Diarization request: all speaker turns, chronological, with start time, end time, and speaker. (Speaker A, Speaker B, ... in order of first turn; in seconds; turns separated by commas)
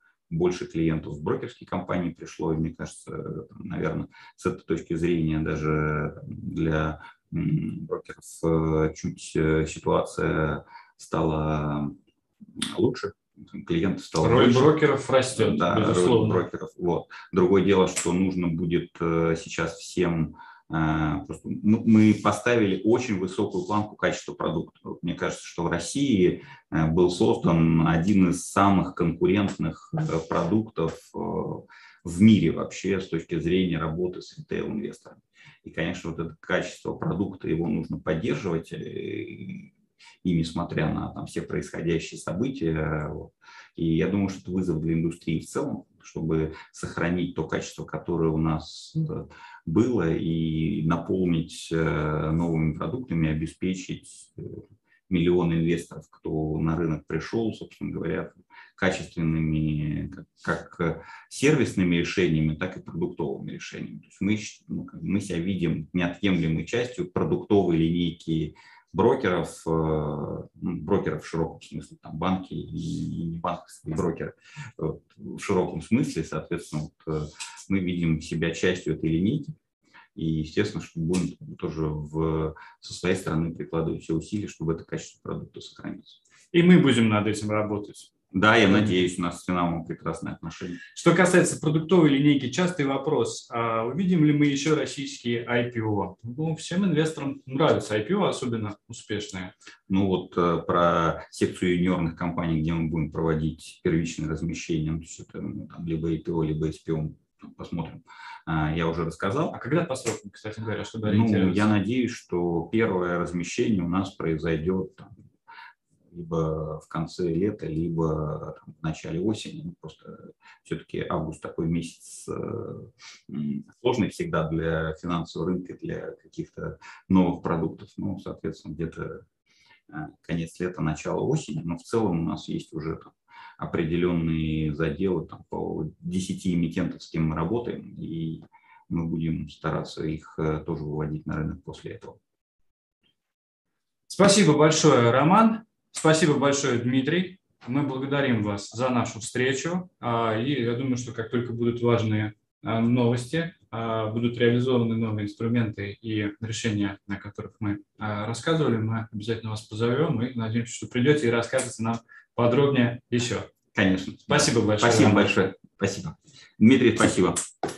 Speaker A: 0.3-11.9, Speaker A: 12.6-14.8, Speaker B: 14.2-16.4, Speaker A: 15.3-39.7, Speaker A: 40.2-79.5, Speaker A: 80.1-86.2, Speaker B: 86.5-88.1, Speaker A: 88.3-90.8, Speaker B: 88.7-89.0, Speaker B: 90.9-99.5, Speaker A: 99.9-109.5, Speaker B: 109.5-111.7, Speaker A: 111.0-115.2, Speaker A: 116.1-129.2, Speaker A: 129.9-142.2, Speaker B: 144.1-163.5, Speaker A: 163.7-167.4, Speaker B: 164.3-165.3